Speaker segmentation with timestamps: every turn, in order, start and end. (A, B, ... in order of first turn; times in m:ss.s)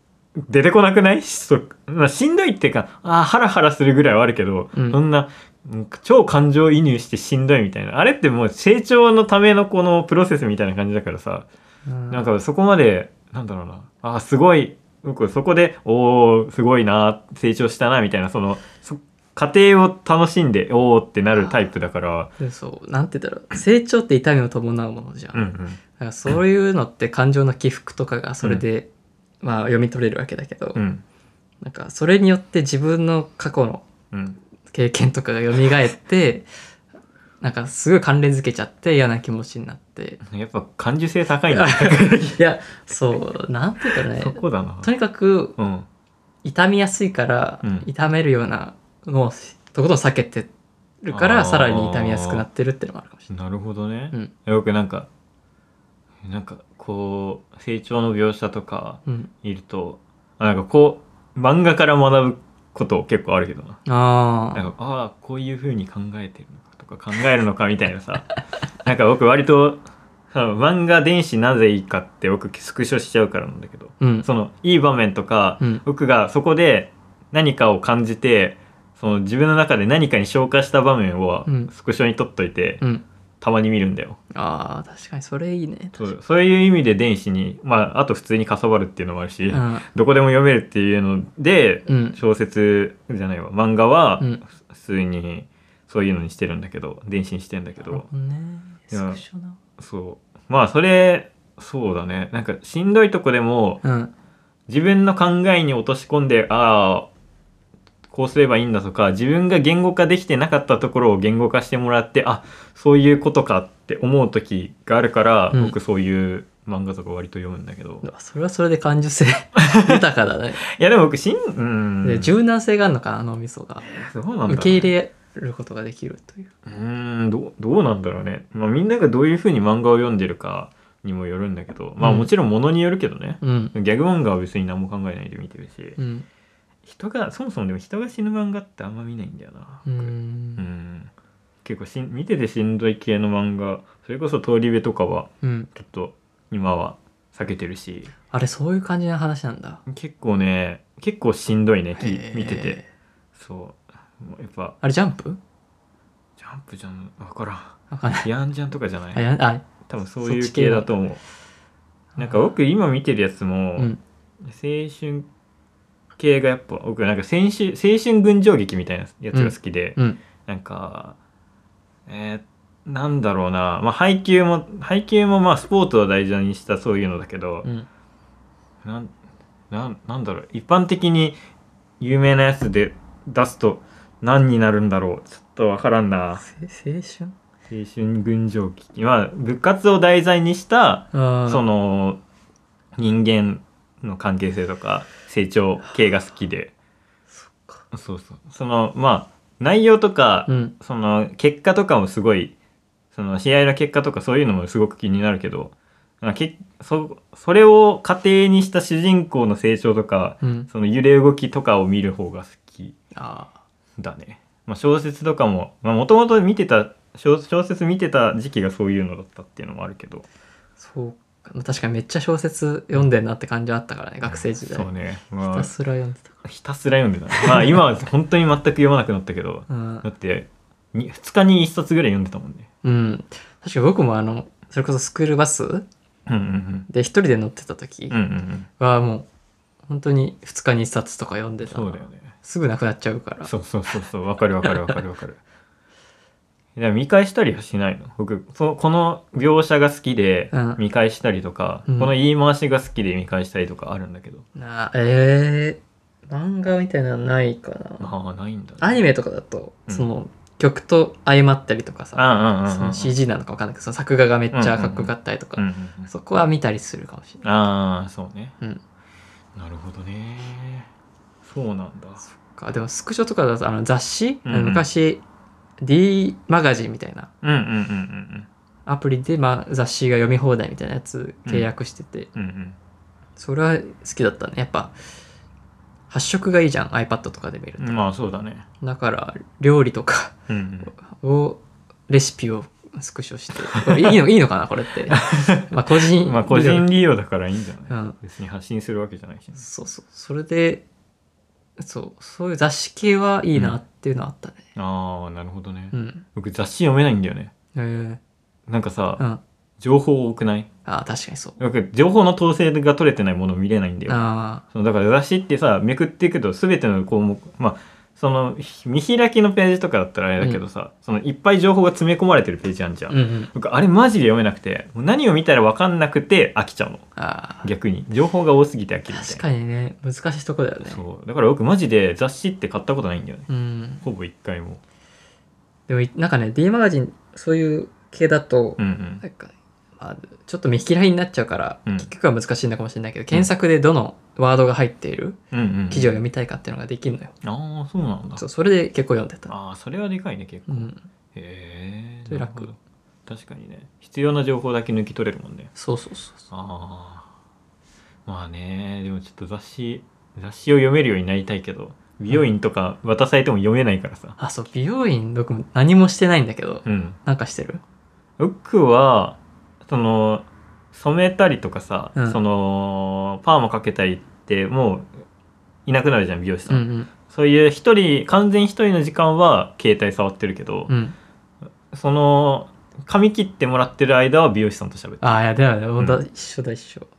0:00.4-0:11.5 A
0:11.9-0:12.2 B
0:12.1-0:22.3 A
0:22.4-0:28.9 B
0:25.3-0:25.8 A
0:29.4-0:30.8 B
0:30.8-0:31.0 A
0:31.6-0:33.9 B
0:34.1-0:34.4 A
0:34.7-0:36.5 B
0:37.4-0:40.2 B
0:40.2-0:42.4 A
0:41.5-0:45.6 B
0:42.9-0:43.2 A
0:44.1-0:44.9 A
0:45.6-0:45.9 A
0:46.4-0:50.5 B
0:47.6-0:47.9 A
0:51.0-0:53.3 B
0:51.1-0:52.4 A
0:53.3-0:55.1 A
0:56.2-1:03.8 A
1:03.9-1:04.7 B
1:04.6-1:08.3 A
1:08.8-1:22.8 A
1:14.0-1:14.3 B
1:21.5-1:21.7 B
1:23.4-1:24.2 A
1:24.3-1:26.1 B
1:26.0-1:38.1 A
1:29.5-1:29.9 B
1:31.9-1:32.2 B
1:37.9-1:39.6 B
1:38.9-1:39.2 A
1:39.8-1:43.8 A
1:43.8-1:44.1 B
1:44.7-1:47.1 A
1:48.1-1:58.0 A
1:58.0-2:00.6 B
1:59.6-2:00.0 A
2:00.6-2:02.3 A
2:02.0-2:06.5 B
2:03.8-2:04.9 A
2:06.6-2:16.0 A
2:12.0-2:12.3 B
2:13.4-2:13.7 B
2:16.0-2:16.3 B
2:16.8-2:21.1 A
2:19.9-2:20.6 B
2:21.6-2:28.1 A
2:25.4-2:25.7 B
2:28.3-2:29.8 B
2:29.9-2:32.8 A
2:32.0-2:32.9 B
2:33.4-2:34.8 A
2:34.8-2:35.4 B
2:36.4-2:39.2 A
2:37.9-2:38.3 B
2:39.1-2:39.7 B
2:39.9-2:41.2 A
2:40.2-2:40.9 B
2:42.2-2:42.4 B
2:42.2-2:43.9 A
2:44.4-2:45.3 A
2:46.2-2:51.2 A
2:49.3-2:50.2 B
2:52.1-2:57.7 A
2:58.8-2:59.1 A
2:59.7-3:01.4 A
3:02.0-3:06.4 A
3:06.4-3:07.3 B
3:07.7-3:12.2 A
3:11.1-3:11.6 B
3:13.0-3:16.7 A
3:17.4-3:17.8 B
3:17.9-3:22.5 A
3:20.5-3:20.7 B
3:23.1-3:33.0 A
3:30.4-3:30.7 B
3:33.2-3:33.5 B
3:34.0-3:40.2 A
3:40.8-3:44.9 B
3:44.3-3:45.7 A
3:45.4-3:46.4 B
3:46.4-3:52.7 A
3:47.4-3:47.8 B
3:49.7-3:50.0 B
3:52.8-3:55.8 B
3:56.3-3:56.9 A
3:56.9-3:58.2 B
3:58.1-3:58.7 A
3:58.8-3:59.3 B
3:59.9-4:03.5 B
4:01.6-4:02.3 A
4:03.4-4:05.4 A
4:04.6-4:04.9 B
4:06.8-4:14.4 A
4:10.5-4:10.8 B
4:11.9-4:12.1 B
4:14.6-4:18.1 B
4:18.0-4:19.0 A
4:18.8-4:27.4 B
4:22.2-4:23.2 A
4:24.5-4:26.1 A
4:27.4-4:28.6 A
4:29.6-4:30.9 A
4:31.4-4:32.2 A
4:32.3-4:35.2 B
4:34.4-4:34.8 A
4:35.8-4:37.3 B
4:37.4-4:38.5 A
4:38.9-4:42.3 B
4:42.4-4:42.8 A
4:43.4-4:44.9 B
4:46.1-4:48.1 B
4:47.8-4:48.7 A
4:48.8-4:50.3 B
4:50.5-4:50.9 A
4:51.0-4:56.9 B
4:53.8-4:54.2 A
4:55.1-4:59.6 A
4:57.9-4:58.2 B
4:59.6-5:00.8 B
5:01.8-5:04.6 B
5:04.8-5:07.5 A
5:05.9-5:06.2 B
5:07.8-5:08.2 B
5:08.7-5:09.2 A
5:09.8-5:10.7 A
5:10.9-5:11.6 B
5:11.6-5:27.0 A
5:14.1-5:14.6 B
5:23.1-5:23.5 B
5:27.2-5:27.7 B
5:27.6-5:29.4 A
5:29.1-5:31.0 B
5:30.8-5:33.5 A
5:33.5-5:34.1 B
5:34.0-5:34.8 A
5:35.9-5:45.4 B
5:38.8-5:39.2 A
5:45.5-5:46.2 A
5:45.9-5:47.3 B
5:47.4-5:48.4 A
5:48.4-5:49.5 B
5:49.5-5:55.7 A
5:50.7-5:51.0 B
5:52.3-5:52.7 B
5:55.8-5:56.5 B
5:56.5-5:57.3 A
5:58.3-6:04.4 A
6:04.4-6:07.8 B
6:06.8-6:07.2 A
6:08.4-6:15.1 A
6:15.9-6:20.9 A
6:16.7-6:17.1 B
6:20.9-6:21.2 B
6:21.9-6:25.4 A
6:25.2-6:27.1 B